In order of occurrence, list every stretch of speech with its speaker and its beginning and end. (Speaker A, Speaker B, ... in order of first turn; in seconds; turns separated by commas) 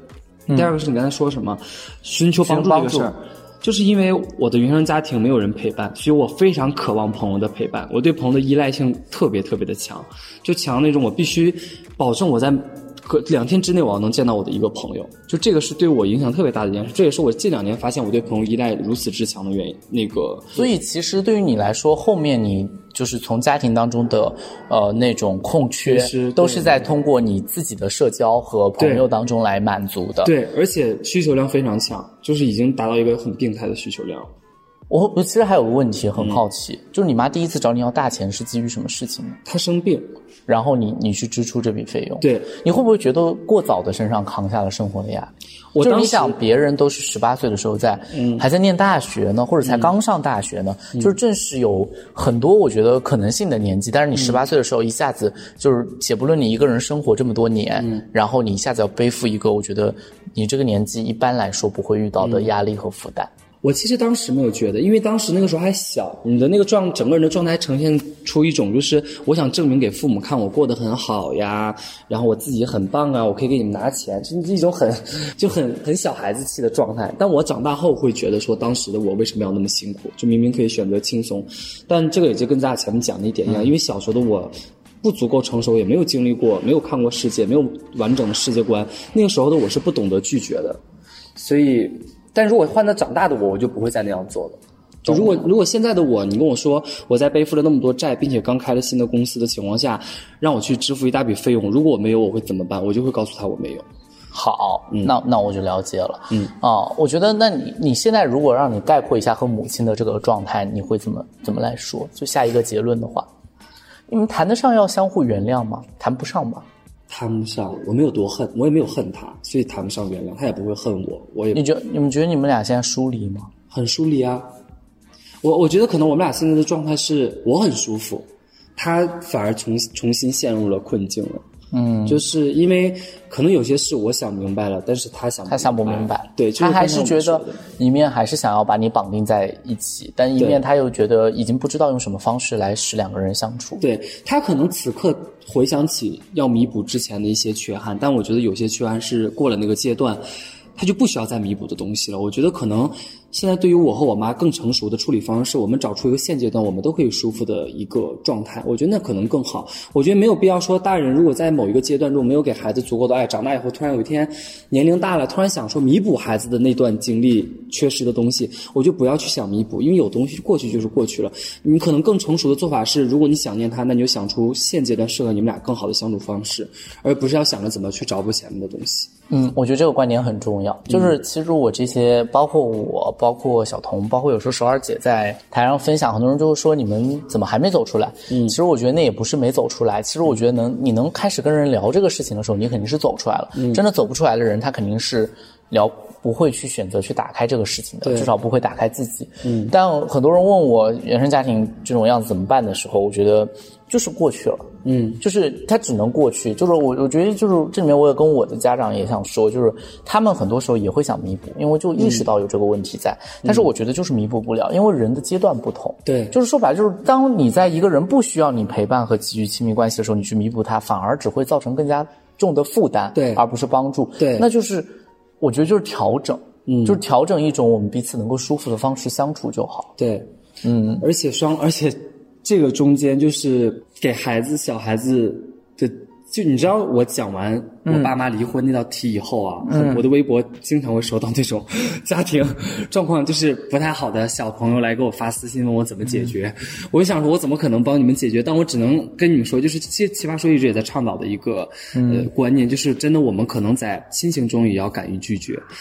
Speaker A: 0.5-0.7, Speaker B: 0.5-20.7, Speaker A: 2.4-3.1, Speaker A: 20.5-30.3, Speaker B: 25.8-26.9, Speaker B: 28.8-29.1, Speaker B: 30.2-34.3, Speaker A: 34.9-39.4, Speaker B: 36.2-36.4, Speaker B: 39.4-40.1, Speaker A: 40.5-63.3, Speaker B: 42.2-42.5, Speaker B: 45.7-46.4, Speaker B: 48.1-48.5, Speaker B: 49.6-49.9, Speaker B: 54.1-54.4, Speaker B: 57.8-58.0, Speaker B: 62.2-62.5, Speaker B: 63.6-90.8, Speaker B: 91.3-103.8, Speaker A: 95.1-95.5, Speaker A: 104.3-113.3, Speaker A: 114.1-116.7, Speaker B: 117.1-121.6, Speaker A: 121.5-123.5, Speaker B: 123.7-124.5, Speaker B: 125.4-131.4, Speaker A: 131.7-132.2, Speaker B: 132.1-137.7, Speaker A: 135.5-143.8, Speaker B: 143.8-150.2, Speaker B: 150.8-179.1, Speaker A: 179.3-204.7, Speaker B: 180.9-181.1, Speaker B: 188.3-188.6, Speaker B: 193.5-193.8, Speaker B: 198.0-198.3, Speaker B: 199.4-199.7, Speaker B: 204.8-205.2, Speaker A: 205.2-229.9, Speaker B: 212.0-212.3, Speaker B: 216.1-216.3, Speaker B: 223.1-223.4, Speaker B: 224.2-224.5, Speaker B: 226.7-227.0, Speaker B: 230.0-230.3, Speaker A: 230.6-231.0, Speaker B: 231.0-255.6, Speaker A: 237.8-238.2, Speaker A: 239.6-240.1, Speaker A: 251.9-252.3